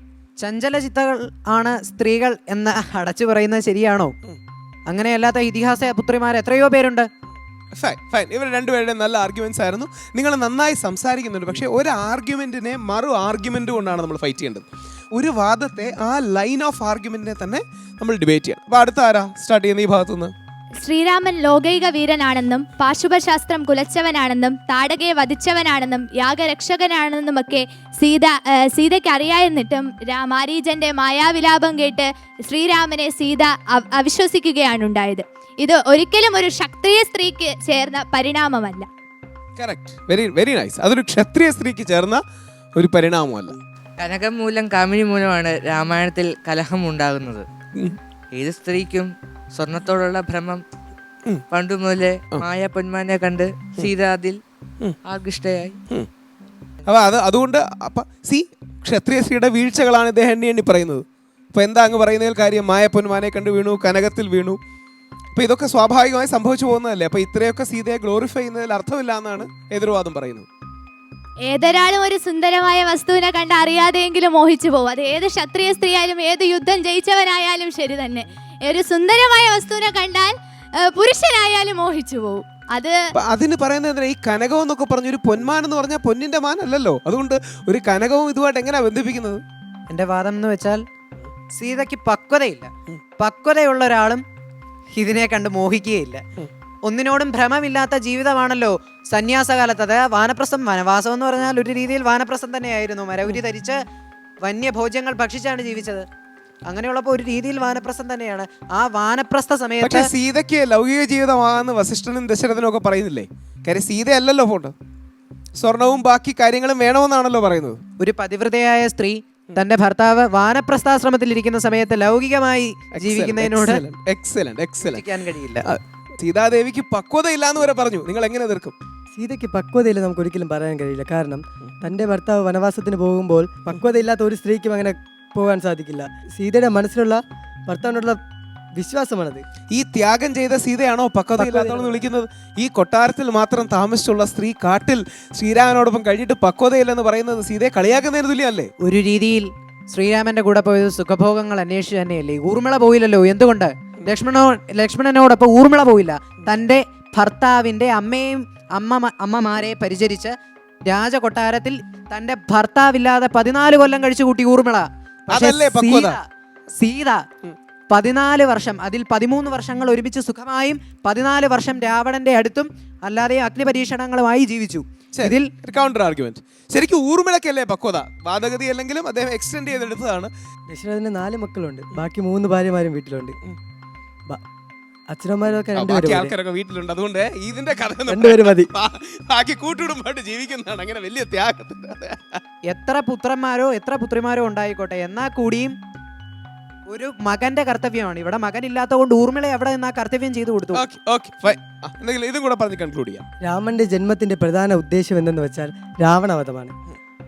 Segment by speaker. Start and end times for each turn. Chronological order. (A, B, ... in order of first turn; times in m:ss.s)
0:00.4-0:04.1 A
0:04.9-0:07.1 A
0:07.7-0:20.3 B
0:20.8-0:38.9 C
0:39.6-0:42.2 B
0:42.8-0:43.6 B
0:44.0-0:47.4 D
0:48.3-0:50.6 D
0:51.5-0:54.4 D
0:55.0-0:55.8 D
0:56.8-1:04.6 B
1:05.3-1:10.5 B
1:11.5-1:23.0 C
1:23.2-1:29.4 B
1:29.9-1:30.8 A
1:31.5-1:34.2 A
1:34.9-1:36.2 A
1:36.8-1:43.8 A
1:44.4-1:46.0 A
1:46.7-1:50.1 A
1:49.8-1:54.7 B
1:55.6-1:57.8 B
1:58.0-2:03.8 A
2:03.0-2:05.0 B
2:04.9-2:05.6 A
2:05.6-2:08.7 B
2:09.1-2:18.2 E
2:18.8-2:19.4 E
2:19.7-2:28.7 B
2:21.4-2:22.0 E
2:28.8-2:40.3 A
2:40.9-2:46.2 A
2:45.3-2:46.2 B
2:46.8-2:47.2 A
2:47.9-2:55.5 A
2:55.1-3:00.3 B
3:00.7-3:03.4 E
3:05.1-3:06.3 E
3:05.7-3:12.4 B
3:08.1-3:08.7 E
3:12.7-3:15.7 A
3:16.9-3:20.8 A
3:20.7-3:23.2 B
3:23.4-3:26.7 E